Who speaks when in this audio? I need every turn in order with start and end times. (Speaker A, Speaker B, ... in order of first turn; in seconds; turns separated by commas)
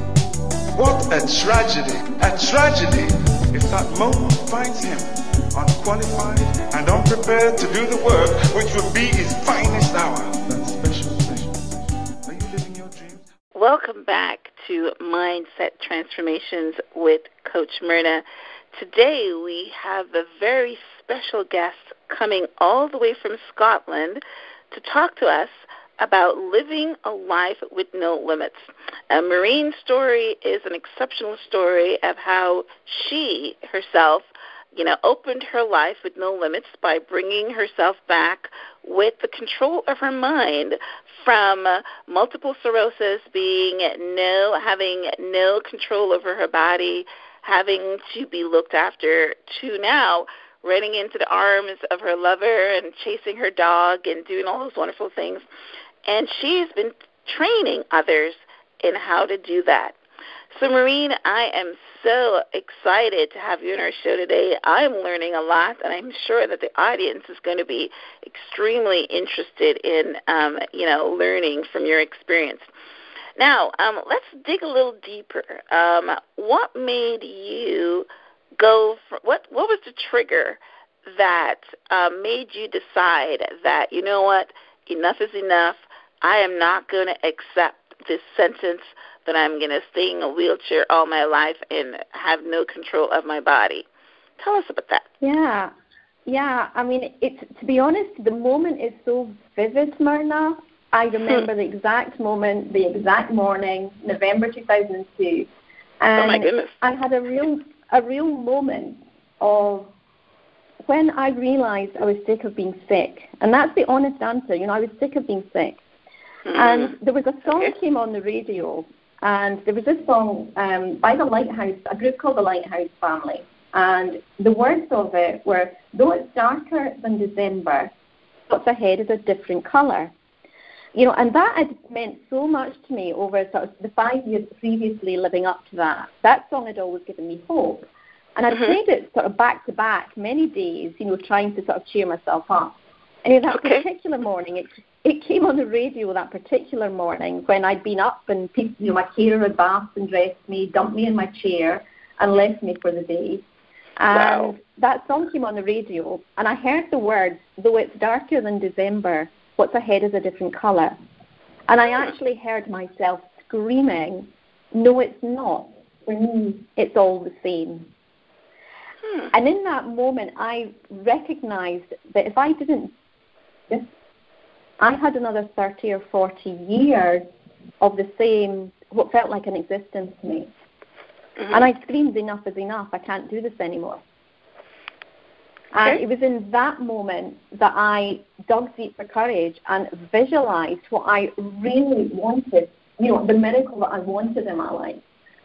Speaker A: 0.7-13.3, Speaker B: 13.6-55.4, Speaker B: 56.1-60.0, Speaker B: 60.5-72.7, Speaker B: 73.4-78.1, Speaker B: 78.6-93.9, Speaker B: 94.4-95.1, Speaker C: 95.2-95.7, Speaker C: 96.3-105.5, Speaker C: 106.0-109.9, Speaker B: 106.2-106.8, Speaker C: 110.8-115.8, Speaker B: 116.5-117.0, Speaker C: 116.5-127.9, Speaker C: 128.5-130.1, Speaker C: 130.9-153.4, Speaker B: 143.5-143.8, Speaker C: 154.0-161.0, Speaker B: 154.1-154.6, Speaker C: 161.7-167.9, Speaker C: 169.3-172.9, Speaker C: 174.8-177.2, Speaker C: 177.8-180.5, Speaker B: 181.4-181.7, Speaker C: 181.5-184.0, Speaker C: 185.7-195.0